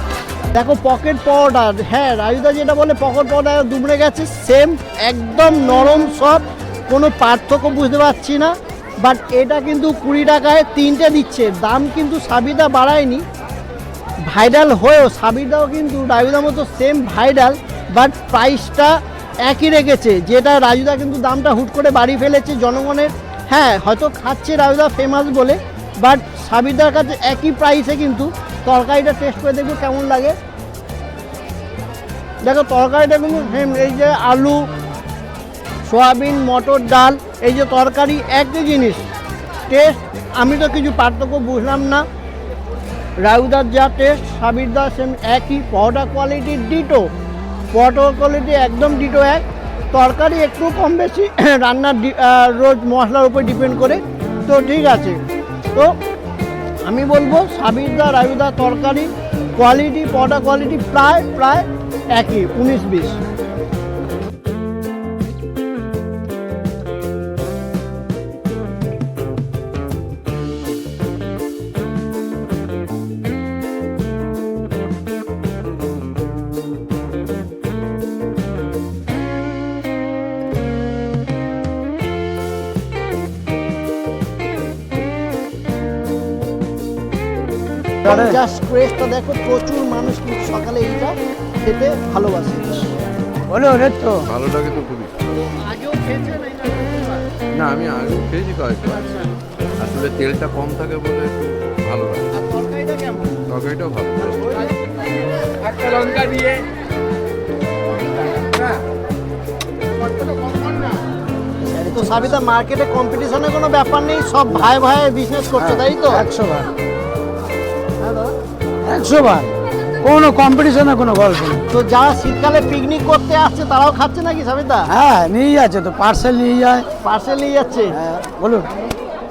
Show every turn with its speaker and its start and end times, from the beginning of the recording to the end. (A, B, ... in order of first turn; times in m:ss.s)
0:00.6-0:13.2 A
0:14.3-0:18.9 A
0:19.4-0:30.4 A
0:32.4-0:34.6 A
0:35.9-0:39.0 A
0:39.7-0:42.0 A
0:43.2-0:47.0 A
0:47.7-0:55.2 A
0:56.9-1:03.2 A
1:28.0-1:28.4 B
1:28.1-1:32.9 A
1:33.5-1:34.2 B
1:34.3-1:35.2 C
1:35.6-1:37.2 A
1:37.6-1:39.1 C
1:39.8-1:42.2 C
1:42.4-1:43.4 A
1:43.5-1:44.6 C
1:45.8-1:46.5 C
1:51.6-1:52.2 B
1:51.9-1:56.2 A
1:55.6-1:56.7 B
1:58.0-1:58.3 A
1:58.8-2:01.7 B
2:01.7-2:04.9 A
2:04.9-2:06.9 B
2:07.0-2:08.0 A
2:07.9-2:08.7 B